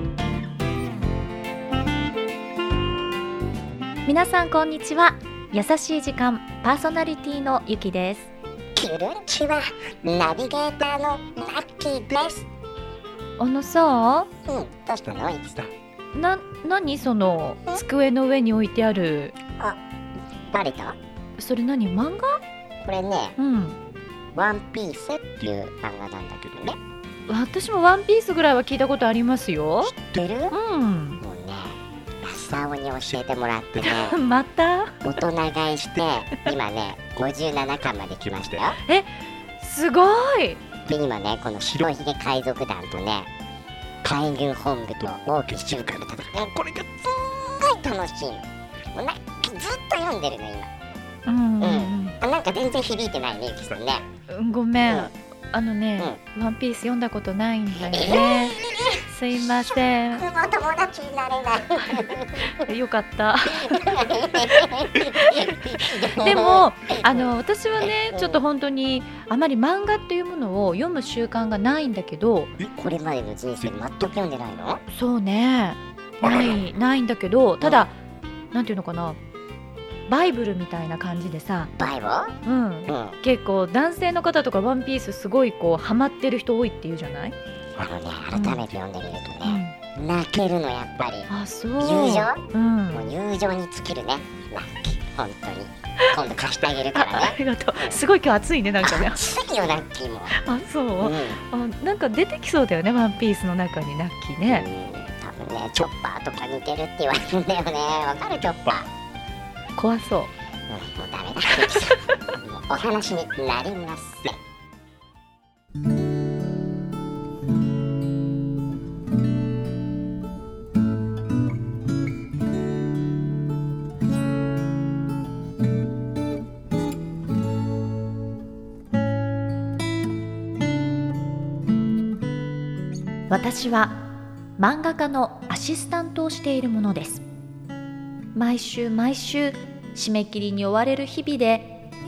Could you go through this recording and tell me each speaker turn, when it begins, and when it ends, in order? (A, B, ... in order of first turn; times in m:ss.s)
0:04.0-0:08.3 A
0:08.7-0:12.5 B
0:13.4-0:14.3 A
0:14.4-0:15.7 B
0:16.1-0:19.3 A
0:20.5-0:21.0 B
0:21.4-0:22.4 A
0:22.8-0:23.4 B
0:23.4-0:23.8 A
0:24.3-0:26.8 B
0:27.3-0:29.9 A
0:29.8-0:30.6 B
0:30.5-0:31.2 A
0:31.2-0:34.2 B
0:33.8-0:35.1 A
0:35.0-0:38.8 B
0:38.8-0:39.1 A
0:39.6-0:40.6 A
0:40.8-0:43.3 B
0:44.0-0:50.7 B
0:51.2-0:52.2 A
0:51.6-0:54.1 B
0:54.3-1:00.2 A
0:57.8-0:59.0 B
0:59.7-1:02.6 B
1:02.0-1:12.5 A
1:03.4-1:07.3 B
1:07.8-1:08.4 B
1:12.6-1:14.8 B
1:14.9-1:17.9 A
1:17.6-1:17.9 B
1:18.5-1:19.2 A
1:20.1-1:21.7 A
1:21.8-1:22.4 B
1:22.4-1:27.3 A
1:22.9-1:23.2 B
1:27.8-1:38.0 B
1:28.3-1:28.6 A
1:29.4-1:29.7 A
1:31.3-1:33.1 A
1:36.9-1:39.2 A
1:38.8-1:40.4 B
1:40.3-1:44.7 A
1:41.0-1:41.4 B
1:44.5-1:48.9 B
1:49.8-1:50.3 A
1:50.7-1:54.4 B
2:13.3-2:14.0 A
2:14.6-2:17.2 A
2:18.3-2:21.8 A